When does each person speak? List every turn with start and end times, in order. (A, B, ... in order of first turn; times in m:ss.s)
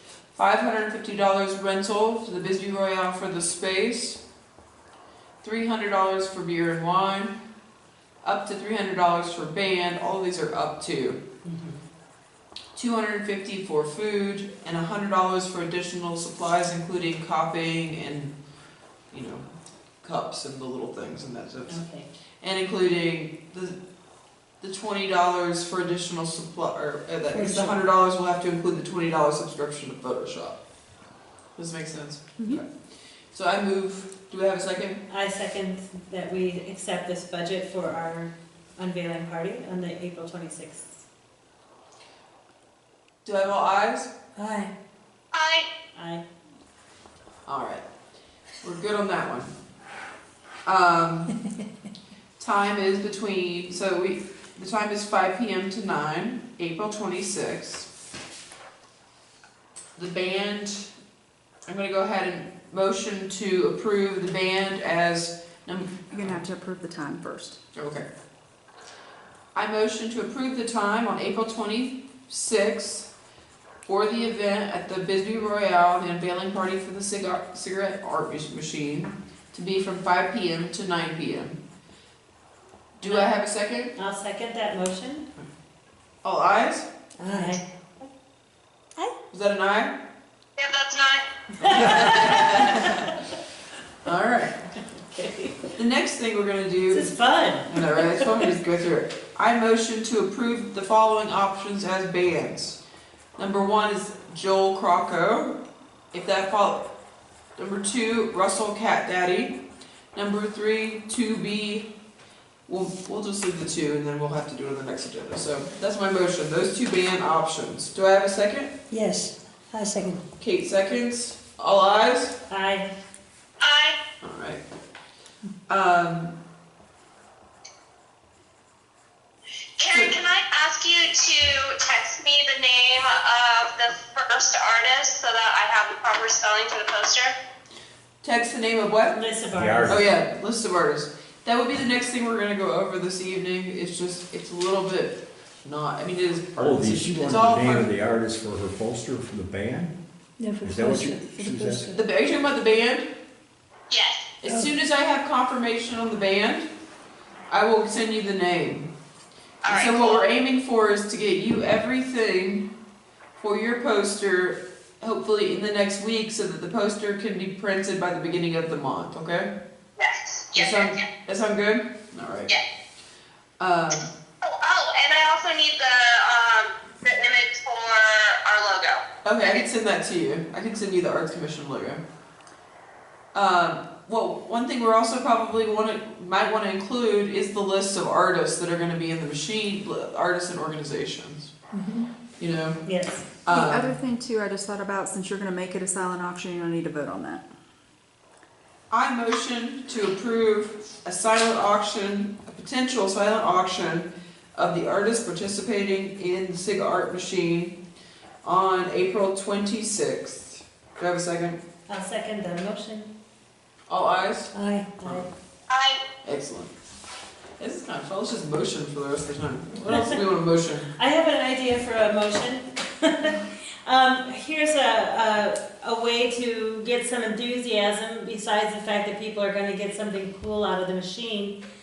0:00.4-0:04.2 A
0:05.4-0:07.3 A
0:08.2-0:11.2 A
0:11.4-0:11.8 B
0:12.8-0:18.3 A
0:19.1-0:19.5 A
0:20.0-0:21.8 A
0:21.7-0:22.1 B
0:22.4-0:23.8 A
0:24.6-0:30.6 A
0:27.3-0:27.8 B
0:31.6-0:32.7 A
0:33.3-0:35.0 A
0:35.1-0:41.0 B
0:43.2-0:44.1 A
0:44.4-0:44.7 B
0:45.3-0:45.7 C
0:46.0-0:46.3 B
0:47.5-0:47.8 A
0:48.6-0:49.5 A
0:50.7-0:51.3 A
0:52.4-0:57.9 A
1:00.0-1:00.9 A
1:01.7-1:06.4 A
1:06.1-1:07.6 D
1:07.8-1:08.1 A
1:09.6-1:13.1 A
1:13.9-1:21.6 A
1:23.0-1:23.9 A
1:23.0-1:23.3 B
1:24.0-1:25.3 B
1:26.2-1:26.9 A
1:27.2-1:27.6 B
1:27.2-1:27.6 E
1:29.3-1:29.9 A
1:30.6-1:32.8 C
1:31.6-1:33.2 B
1:31.6-1:33.1 A
1:34.0-1:34.6 A
1:34.8-1:35.7 B
1:35.8-1:37.1 A
1:36.9-1:38.5 B
1:37.7-1:42.8 A
1:43.4-1:45.6 A
1:46.1-1:46.9 A
1:47.6-1:49.6 A
1:50.1-1:51.9 A
1:52.7-1:58.7 A
1:58.9-2:00.2 E
2:00.4-2:02.4 A
2:02.5-2:02.9 B
2:03.6-2:04.0 C
2:04.2-2:04.6 A
2:05.7-2:06.4 A
2:09.8-2:17.4 C
2:09.9-2:10.2 A
2:18.2-2:19.2 A
2:19.1-2:20.0 B
2:19.5-2:20.1 F
2:19.9-2:27.9 A
2:26.6-2:30.0 F
2:30.4-2:31.9 E
2:30.6-2:31.9 F
2:31.9-2:33.1 A
2:33.9-2:34.4 C
2:34.4-2:36.7 A
2:34.4-2:34.7 E
2:37.5-2:38.9 A
2:39.6-2:40.2 C
2:39.7-2:42.7 A
2:43.4-2:49.5 A
2:50.0-2:51.1 C
2:50.5-2:52.6 A
2:53.6-2:54.1 A
2:54.4-2:59.6 C
2:59.2-3:02.0 A
3:03.3-3:11.5 A
3:11.7-3:12.1 E
3:12.4-3:12.8 A
3:12.8-3:13.3 B
3:13.4-3:13.9 A
3:13.5-3:17.4 D
3:18.9-3:27.8 A
3:28.4-3:31.6 A
3:31.9-3:33.1 B
3:33.9-3:35.3 A
3:34.5-3:35.3 B
3:35.7-3:36.0 C
3:36.2-3:36.7 A
3:37.6-3:40.9 A
3:39.8-3:40.2 B
3:40.9-3:51.6 B